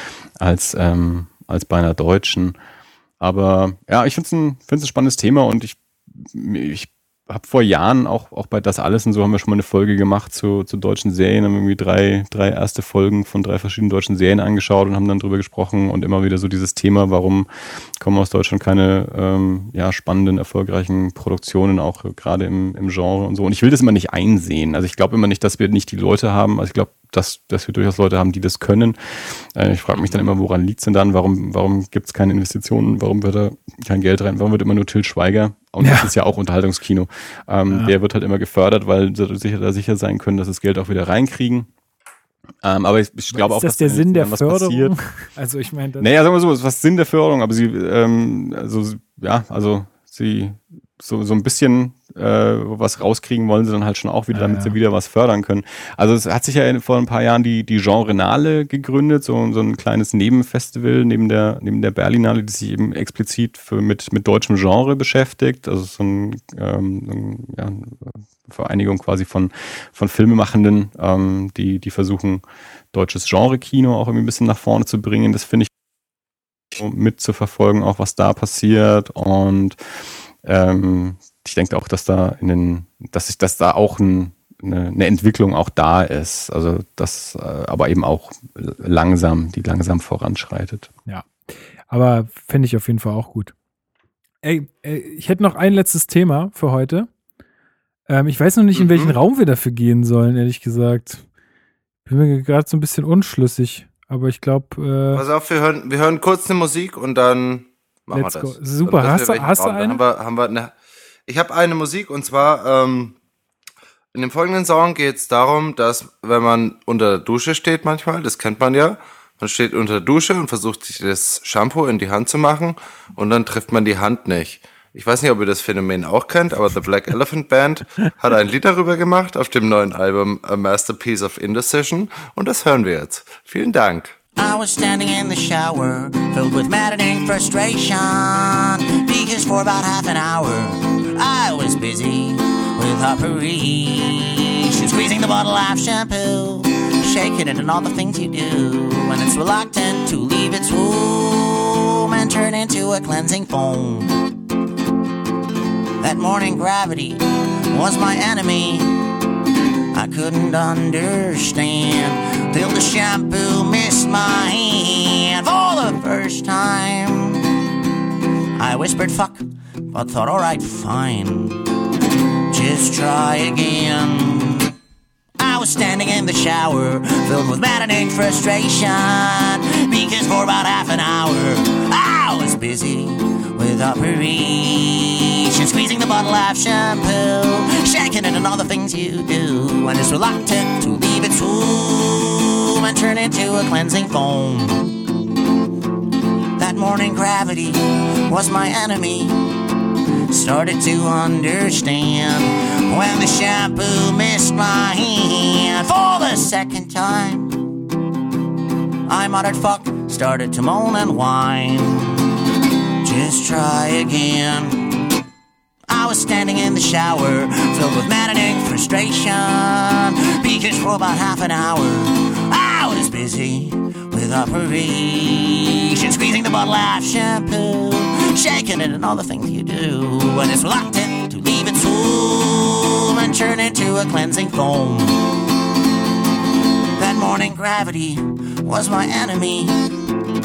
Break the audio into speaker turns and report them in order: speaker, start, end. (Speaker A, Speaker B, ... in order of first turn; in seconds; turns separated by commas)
Speaker A: 0.4-2.5, Speaker A: 3.2-17.5, Speaker A: 18.0-41.7, Speaker B: 35.8-36.1, Speaker B: 37.7-37.9, Speaker A: 42.6-45.0, Speaker B: 43.3-46.1, Speaker A: 46.0-75.7, Speaker B: 54.3-54.8, Speaker A: 76.7-79.8, Speaker A: 80.4-90.9, Speaker B: 91.1-91.4, Speaker B: 91.9-93.5, Speaker B: 94.4-97.1, Speaker B: 98.1-101.2, Speaker C: 98.8-99.2, Speaker B: 102.1-105.2, Speaker C: 105.1-110.7, Speaker B: 108.1-110.0, Speaker C: 111.3-113.2, Speaker C: 114.1-134.2, Speaker D: 134.4-154.2, Speaker D: 156.0-159.0, Speaker D: 159.9-167.6, Speaker D: 168.6-171.7, Speaker D: 172.5-174.7, Speaker D: 175.4-195.0, Speaker D: 196.6-199.3, Speaker D: 200.3-207.8, Speaker D: 209.1-212.3, Speaker D: 213.0-215.0, Speaker D: 215.9-235.2, Speaker D: 237.0-239.8